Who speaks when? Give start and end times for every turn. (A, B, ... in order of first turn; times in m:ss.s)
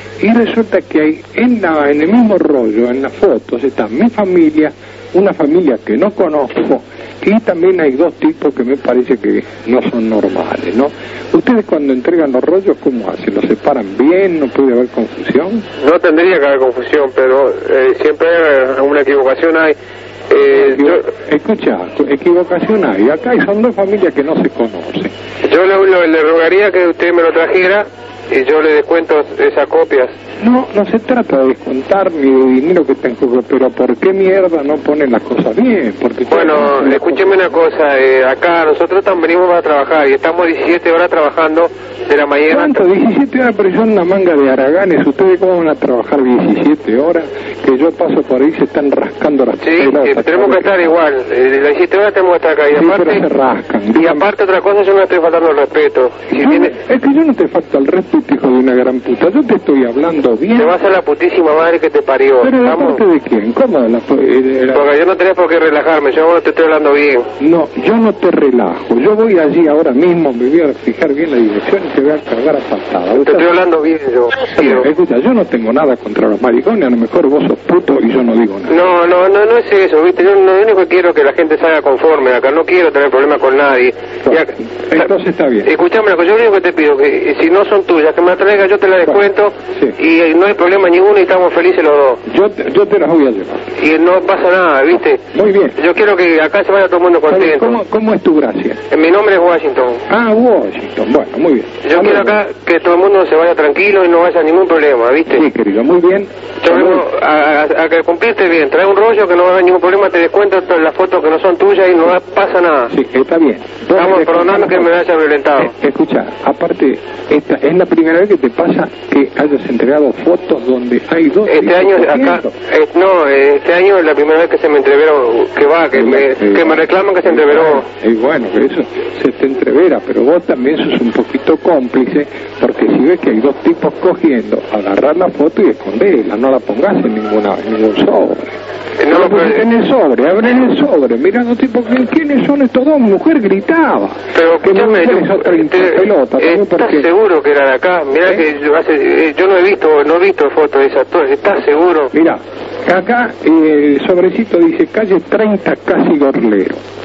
0:00.2-0:15.7 A
0:15.8-0:19.8 B
0:20.3-0:21.1 B
0:20.5-0:25.1 A
0:25.4-0:30.1 B
0:30.4-0:37.5 A
0:36.3-0:42.9 B
0:42.5-0:51.0 A
0:49.6-0:53.2 B
0:52.7-0:54.3 A
0:53.9-0:56.8 B
0:56.4-1:00.8 A
1:00.5-1:03.0 B
1:02.4-1:04.8 A
1:04.7-1:07.3 B
1:07.4-1:13.6 A
1:13.1-1:14.9 B
1:14.5-1:18.8 A
1:18.7-1:25.1 B
1:24.2-1:25.7 A
1:25.6-1:32.2 B
1:32.2-1:33.7 A
1:33.8-1:35.2 B
1:35.3-1:35.8 A
1:35.8-1:37.8 B
1:37.3-1:38.8 A
1:38.9-1:40.0 B
1:40.1-1:42.4 A
1:41.8-1:45.4 B
1:45.3-1:47.0 A
1:46.6-1:52.9 B
1:52.9-1:54.9 A
1:53.9-1:55.7 B
1:55.6-2:02.5 A
2:01.4-2:07.9 B
2:05.9-2:27.1 A
2:19.0-2:19.6 B
2:24.3-2:32.1 B
2:32.1-2:36.8 A